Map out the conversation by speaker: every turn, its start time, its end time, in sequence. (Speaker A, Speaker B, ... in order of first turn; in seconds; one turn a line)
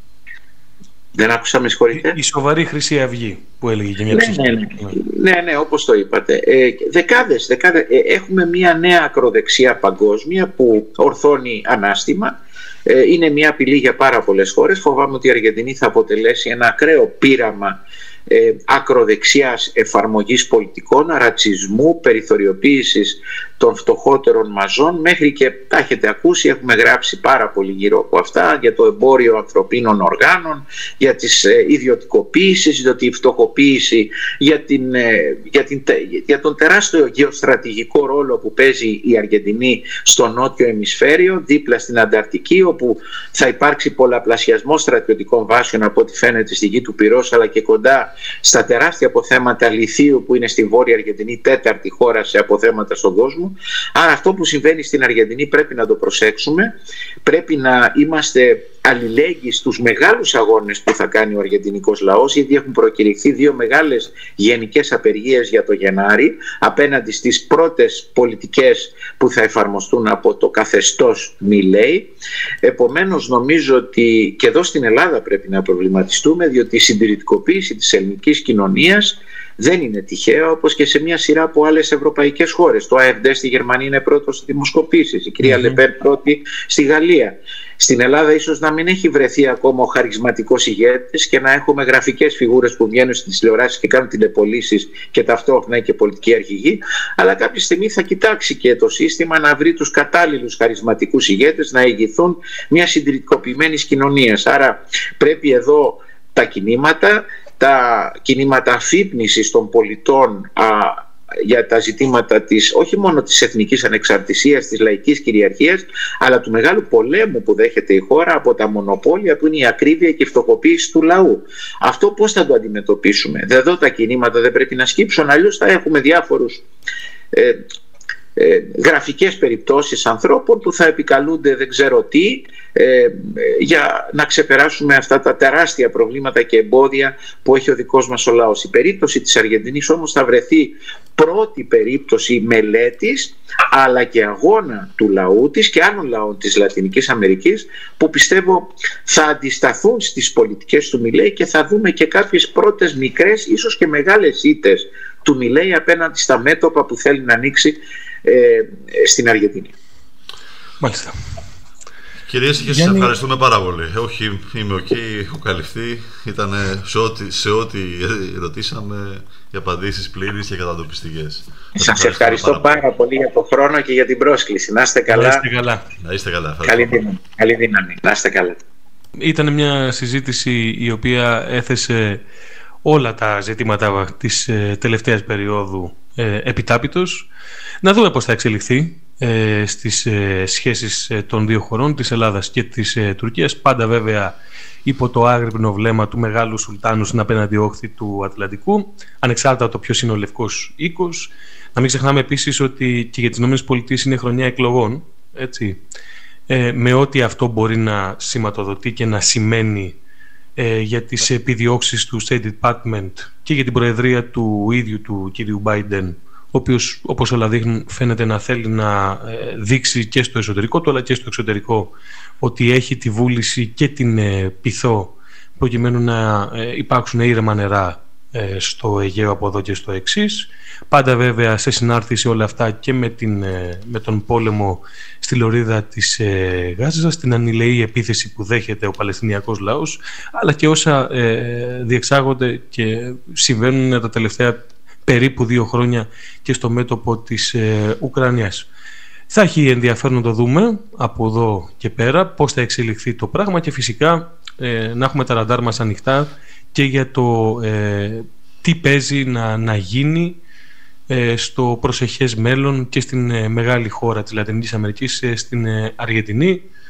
Speaker A: 1.1-2.2
Speaker B: 1.9-4.9
Speaker A: 4.1-12.3
Speaker A: 12.8-56.7
Speaker A: 57.2-72.1
Speaker A: 72.6-126.6
Speaker B: 85.4-85.8
Speaker A: 127.3-127.6
Speaker A: 128.3-159.7
Speaker B: 160.8-161.1
Speaker C: 162.3-172.8
Speaker B: 162.6-163.1
Speaker A: 171.8-175.4
Speaker B: 175.1-175.8
Speaker C: 176.0-177.0
Speaker A: 176.7-178.6
Speaker B: 179.2-182.2
Speaker B: 182.8-187.3
Speaker B: 187.8-194.3
Speaker B: 194.8-205.8
Speaker B: 206.5-209.9
Speaker B: 210.6-248.7
Speaker B: 249.3-260.4
Speaker B: 261.1-266.6